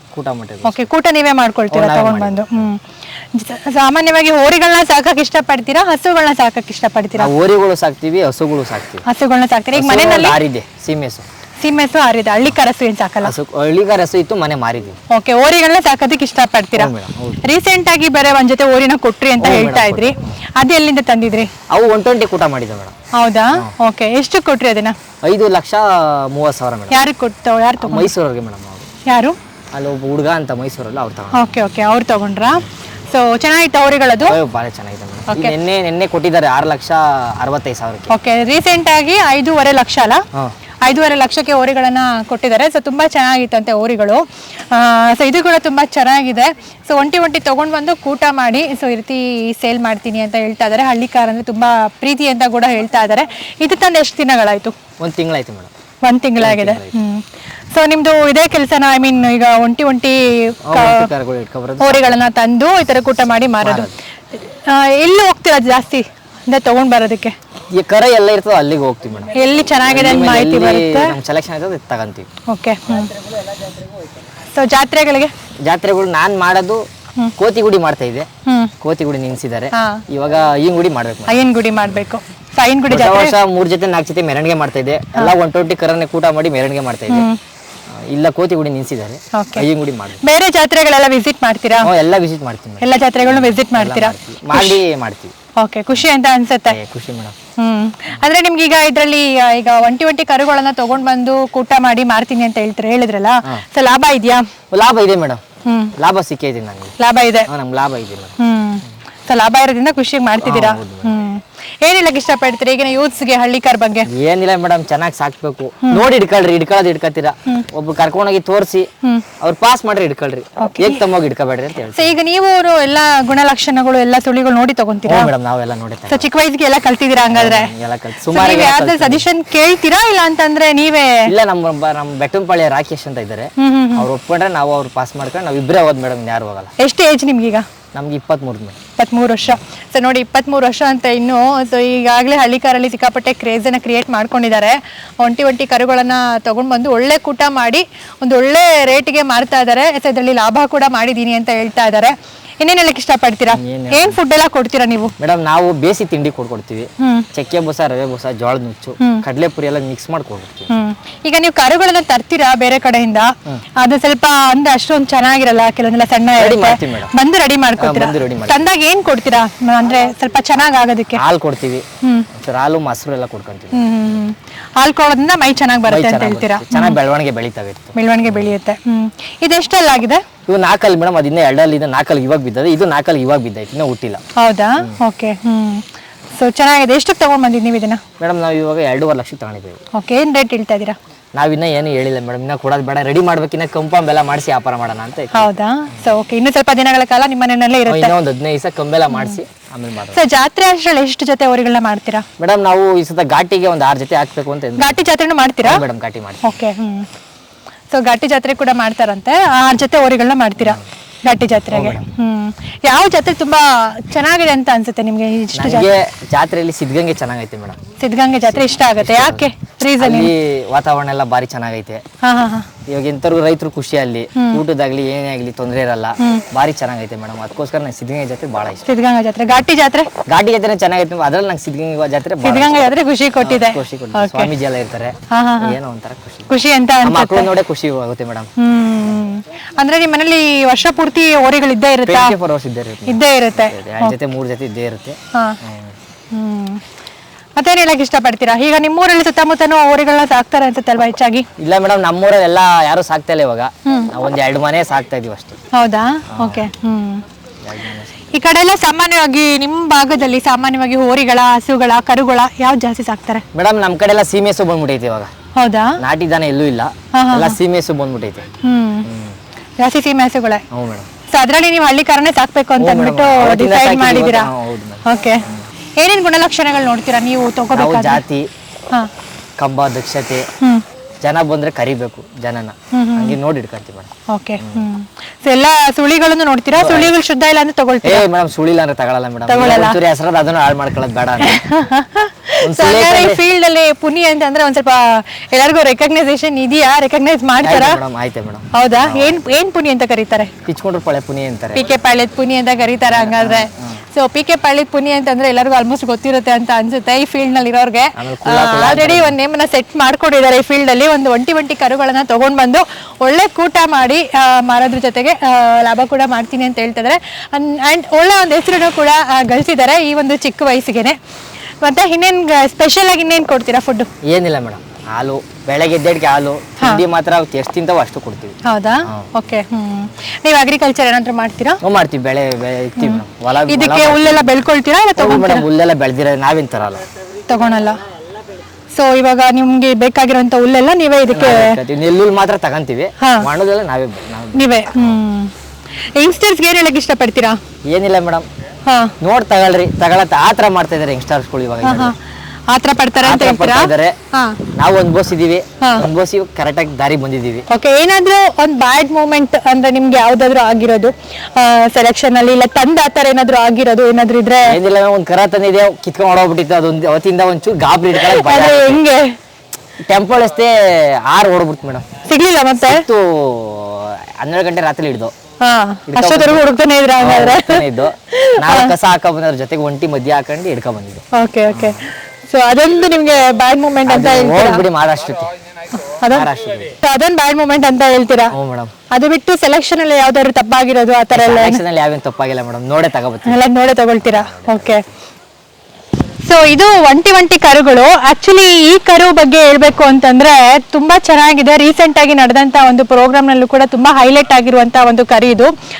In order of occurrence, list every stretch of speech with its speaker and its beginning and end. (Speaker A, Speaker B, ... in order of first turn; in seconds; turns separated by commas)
Speaker A: 0.1-0.8, Speaker B: 0.6-2.8, Speaker A: 1.7-2.7, Speaker B: 3.3-7.3, Speaker A: 7.2-9.0, Speaker B: 9.0-10.4, Speaker A: 9.7-11.2, Speaker B: 11.6-13.3, Speaker A: 13.2-15.0, Speaker B: 15.1-16.9, Speaker A: 16.8-17.4, Speaker B: 17.4-21.5, Speaker A: 19.4-20.3, Speaker A: 21.7-22.9, Speaker B: 23.1-24.9, Speaker A: 25.2-27.0, Speaker B: 26.9-28.1, Speaker A: 27.8-28.9, Speaker B: 29.1-29.4, Speaker A: 29.7-31.5, Speaker B: 31.3-34.4, Speaker A: 34.2-38.1, Speaker B: 35.3-35.5, Speaker B: 38.1-40.2, Speaker B: 40.8-54.7, Speaker A: 55.0-55.7, Speaker B: 56.0-61.1, Speaker A: 56.4-56.9, Speaker A: 60.7-62.2, Speaker B: 61.8-67.3, Speaker A: 63.6-63.9, Speaker A: 67.7-69.3, Speaker B: 69.3-71.1, Speaker A: 69.8-72.3, Speaker B: 72.5-73.1, Speaker B: 74.5-75.3, Speaker A: 75.6-76.8, Speaker A: 77.4-78.3, Speaker B: 78.5-78.7, Speaker A: 78.8-81.4, Speaker B: 79.7-80.0, Speaker B: 81.3-83.3, Speaker A: 82.9-87.3, Speaker B: 87.1-87.4, Speaker A: 87.9-90.2, Speaker B: 89.3-89.6, Speaker B: 90.2-91.9, Speaker A: 91.8-95.3, Speaker B: 92.8-94.8, Speaker B: 95.6-96.8, Speaker A: 96.7-97.3, Speaker B: 97.6-104.4, Speaker A: 104.7-105.4, Speaker B: 105.6-105.9, Speaker A: 106.0-106.9, Speaker B: 107.0-107.5, Speaker A: 107.5-108.3, Speaker B: 108.4-114.1, Speaker A: 110.4-111.1, Speaker A: 114.1-118.9, Speaker A: 119.4-122.1, Speaker B: 120.6-121.0, Speaker B: 121.9-125.3, Speaker A: 125.0-126.3, Speaker B: 126.1-127.7, Speaker A: 127.3-129.3, Speaker B: 128.3-131.3, Speaker A: 131.2-136.7, Speaker B: 133.6-134.1, Speaker B: 136.8-137.7, Speaker A: 137.9-138.8, Speaker B: 139.0-155.1, Speaker A: 153.5-154.2, Speaker A: 155.2-160.7, Speaker B: 157.0-157.2, Speaker B: 160.7-171.2, Speaker A: 166.4-167.1, Speaker A: 167.8-168.7, Speaker A: 171.2-173.9, Speaker B: 172.0-172.3, Speaker B: 173.7-177.0, Speaker A: 175.9-178.5, Speaker B: 177.9-180.2, Speaker A: 180.5-184.2, Speaker B: 184.4-185.8, Speaker B: 186.3-188.0, Speaker A: 188.2-189.8, Speaker B: 189.9-191.0, Speaker A: 191.3-195.5, Speaker B: 195.3-198.1, Speaker A: 197.9-200.2, Speaker B: 199.1-199.4, Speaker B: 200.1-202.2, Speaker A: 202.4-205.0, Speaker B: 204.8-205.8, Speaker A: 205.6-206.4, Speaker B: 206.4-207.1, Speaker B: 207.9-215.9, Speaker A: 210.6-210.8, Speaker A: 211.7-212.1, Speaker A: 215.5-217.8, Speaker B: 218.0-220.3, Speaker A: 218.5-222.0, Speaker B: 222.2-222.7, Speaker A: 222.8-228.8, Speaker B: 224.3-224.6, Speaker B: 228.8-230.1, Speaker A: 230.2-238.5, Speaker B: 232.4-234.5, Speaker B: 235.3-235.8, Speaker B: 236.5-237.5, Speaker B: 238.6-242.3, Speaker A: 242.1-245.9, Speaker B: 243.1-244.2, Speaker B: 246.3-246.8, Speaker B: 247.6-251.4, Speaker A: 251.6-255.6, Speaker B: 253.8-254.1, Speaker B: 255.7-257.2, Speaker A: 256.3-256.6, Speaker A: 257.6-258.2, Speaker B: 258.3-263.4, Speaker A: 263.5-265.3, Speaker B: 265.6-266.0, Speaker A: 266.0-268.4, Speaker B: 267.1-267.6, Speaker B: 268.6-269.1, Speaker A: 269.1-269.4, Speaker B: 269.8-270.6, Speaker A: 270.7-271.1, Speaker B: 271.3-274.5, Speaker A: 272.8-275.6, Speaker B: 275.0-275.4, Speaker B: 276.0-278.2, Speaker A: 277.7-278.5, Speaker A: 279.6-280.5, Speaker A: 281.2-284.8, Speaker B: 282.9-283.4, Speaker B: 284.3-288.2, Speaker A: 286.7-287.1, Speaker A: 288.0-291.6, Speaker B: 289.5-290.0, Speaker B: 291.4-298.0, Speaker A: 292.6-293.4, Speaker A: 297.6-299.4, Speaker B: 298.7-300.5, Speaker A: 300.6-301.9, Speaker B: 301.7-321.2, Speaker A: 303.1-304.0, Speaker A: 308.2-309.4, Speaker B: 321.8-324.1, Speaker A: 324.2-328.6, Speaker B: 328.6-331.8, Speaker A: 331.8-334.6, Speaker B: 333.0-335.6, Speaker A: 335.1-337.0, Speaker B: 337.5-338.0, Speaker B: 338.9-341.8, Speaker A: 341.3-345.2, Speaker B: 343.2-343.5, Speaker B: 344.5-345.5, Speaker B: 346.1-347.6, Speaker A: 347.9-348.5, Speaker B: 348.9-349.1, Speaker A: 349.2-352.1, Speaker B: 351.8-352.1, Speaker B: 352.7-354.6, Speaker A: 353.2-354.1, Speaker A: 354.7-357.6, Speaker B: 355.8-356.1, Speaker B: 357.7-364.8, Speaker A: 364.7-369.0, Speaker B: 368.2-369.4, Speaker A: 370.1-372.1, Speaker B: 372.2-373.0, Speaker A: 372.8-375.3, Speaker B: 375.6-378.9, Speaker A: 376.1-376.6, Speaker A: 377.2-382.0, Speaker B: 381.3-384.8, Speaker A: 384.1-385.5, Speaker B: 386.0-388.5, Speaker A: 386.3-386.9, Speaker A: 388.5-388.9, Speaker B: 389.1-391.8, Speaker A: 391.3-393.6, Speaker B: 393.4-395.0, Speaker A: 394.2-395.1, Speaker B: 396.4-405.7